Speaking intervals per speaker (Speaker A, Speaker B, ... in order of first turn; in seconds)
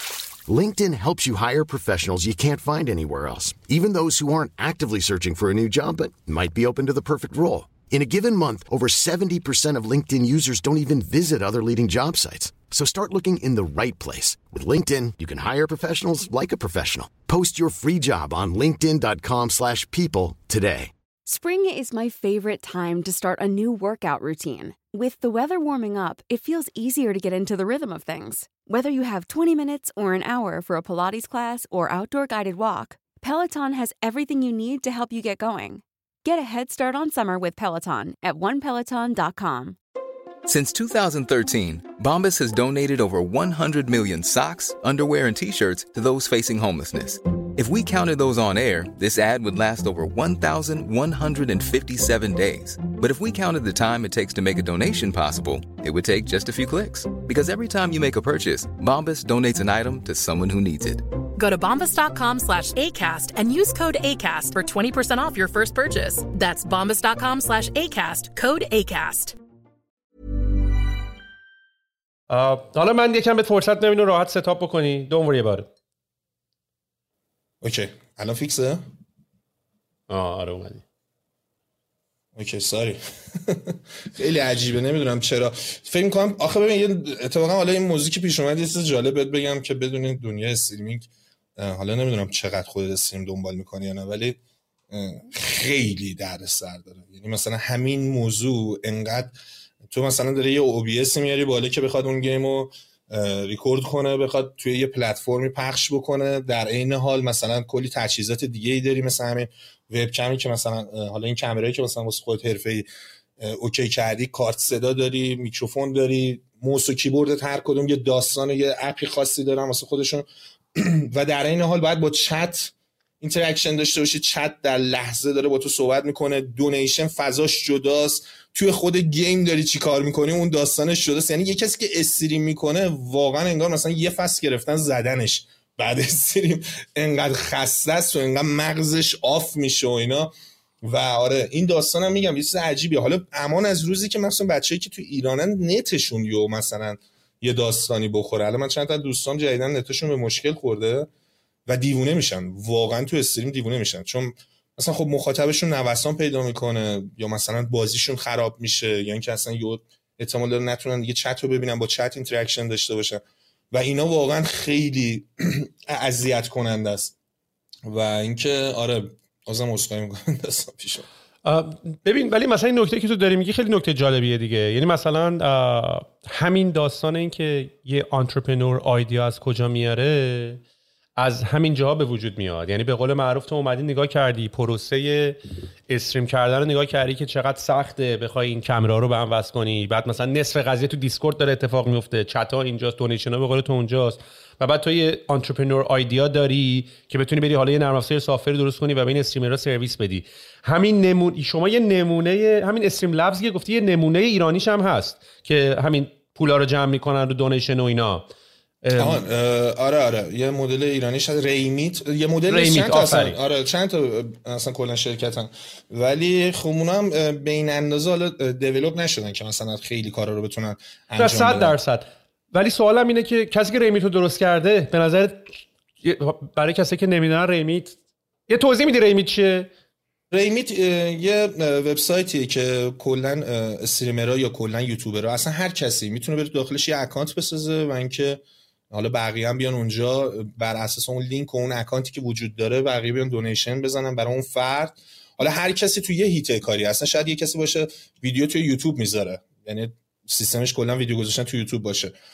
Speaker A: 0.5-20.9
Speaker B: 21.3-39.8
Speaker C: 40.5-61.0
Speaker D: 61.4-69.4
Speaker E: 72.3-75.7, 80.1-80.8, 171.4-180.6, 181.2-208.3, 208.8-209.2, 212.5-213.4, 221.2-228.0, 228.5-229.7
Speaker F: 77.6-78.8, 82.4-94.4, 94.9-99.3, 99.9-112.9, 113.4-120.2, 120.8-140.3, 140.8-151.1, 151.7-167.1, 167.9-171.1, 209.0-221.8, 230.3-252.1